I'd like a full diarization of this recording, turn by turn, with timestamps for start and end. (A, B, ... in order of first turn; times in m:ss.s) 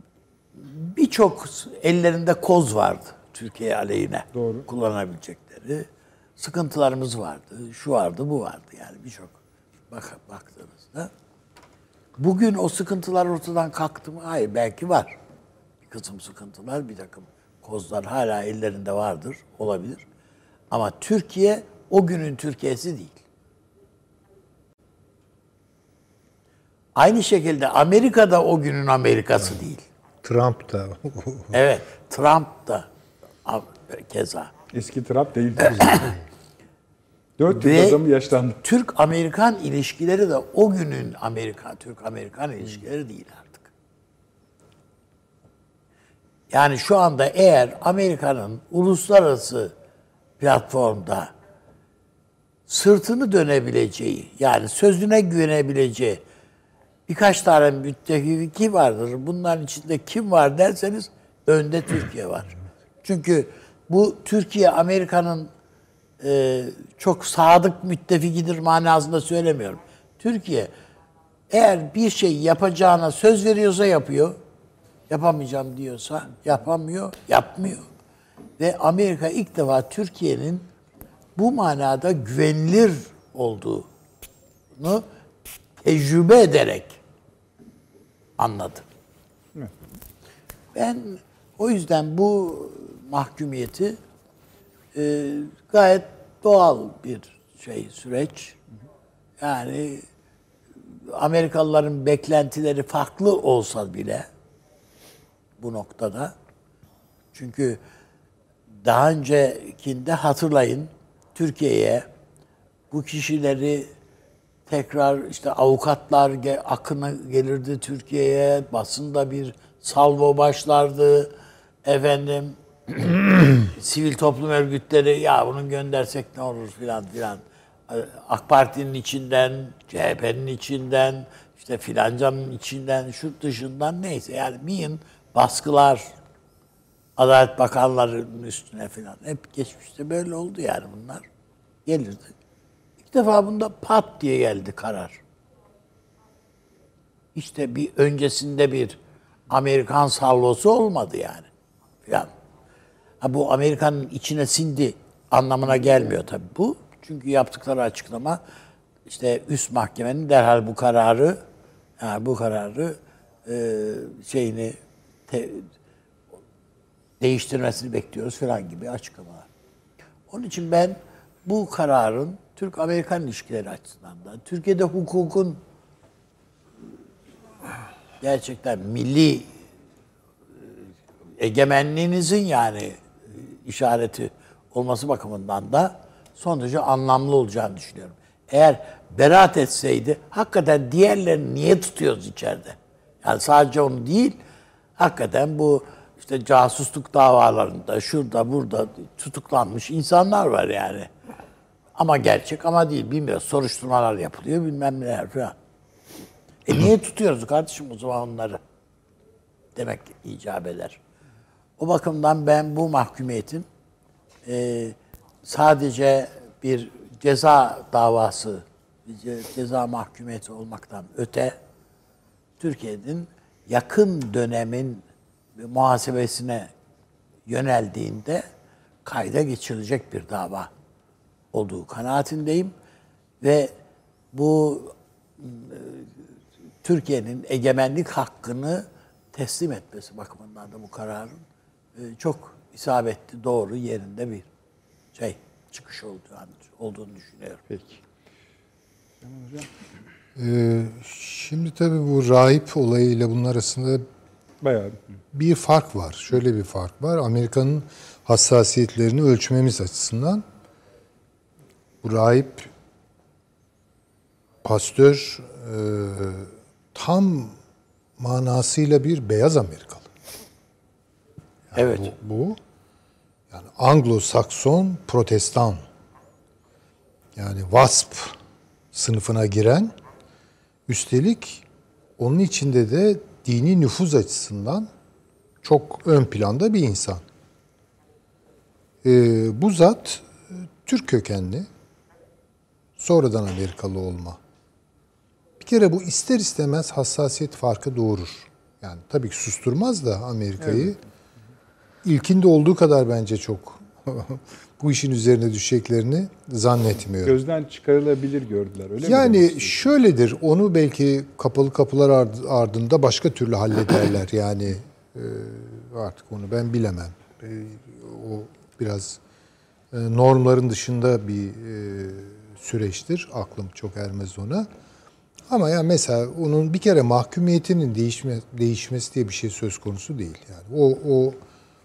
0:00.6-0:05.9 A
0:04.4-0:04.6 B
0:06.4-0:09.4 A
0:09.9-0:11.1 A
0:12.2-0:15.2 A
0:15.8-0:20.0 A
0:20.7-0:23.2 A
0:27.0-0:29.8 A
0:30.2-0:31.5 C
0:31.5-0:32.9 A
0:33.4-0:34.5 A
0:34.7-0:36.2 B
0:35.7-0:36.1 A
0:37.4-0:38.6 B
0:37.5-0:38.0 A
0:38.6-0:43.7 A
0:46.5-0:49.7 A
0:50.4-0:51.3 A
0:52.7-0:56.2 A
0:57.1-1:05.5 A
1:06.2-1:10.7 A
1:11.5-1:14.4 A
1:15.1-1:17.8 A
1:18.6-1:20.7 A
1:21.4-1:23.9 A
1:24.8-1:25.1 A
1:25.8-1:27.0 A
1:28.4-1:28.9 A
1:30.7-1:34.0 A
1:35.0-1:38.6 A
1:39.4-1:40.0 A
1:41.1-1:44.3 A
1:45.6-1:46.4 A
1:47.3-1:47.8 A
1:48.8-1:52.1 A
1:52.9-1:53.9 A
1:54.7-2:01.3 A
2:01.8-2:16.1 A
2:17.2-2:21.3 A
2:21.9-2:22.3 A
2:23.0-2:25.2 A
2:27.4-2:31.5 A
2:33.2-2:38.4 A
2:39.1-2:41.4 A
2:42.0-2:44.8 A
2:45.3-2:45.7 A
2:47.2-2:49.5 A
2:50.3-2:55.6 A
2:58.2-2:59.5 A
3:01.4-3:14.4 A
3:15.0-3:21.1 A
3:22.0-3:25.6 A
3:26.6-3:28.6 A
3:29.8-3:31.0 A
3:31.8-3:33.7 A
3:34.5-3:41.6 A
3:42.6-3:45.0 A
3:45.6-3:46.7 A
3:47.5-3:48.5 A
3:49.0-3:50.7 A
3:51.5-3:52.7 A
3:53.4-3:53.7 A
3:54.3-3:56.2 A
3:56.8-4:01.4 A
4:02.0-4:04.5 A
4:05.2-4:07.7 A
4:07.7-4:08.0 B
4:09.2-4:09.7 B
4:10.4-4:14.0 C
4:14.6-4:15.0 B
4:15.3-4:20.4 C
4:22.0-4:22.7 C
4:24.6-4:27.6 C
4:28.2-4:30.1 C
4:31.7-4:32.6 C
4:31.8-4:32.1 A
4:33.5-4:35.8 C
4:37.4-4:38.4 C
4:38.9-4:39.9 C
4:40.9-4:41.6 C
4:42.2-4:44.9 C
4:45.6-4:47.2 C
4:49.0-4:51.7 C
4:53.0-4:54.4 C
4:55.6-5:01.0 C
5:00.6-5:00.9 B
5:02.0-5:07.4 C
5:07.2-5:09.9 B
5:09.0-5:19.2 C
5:19.9-5:24.7 C
5:25.5-5:31.4 C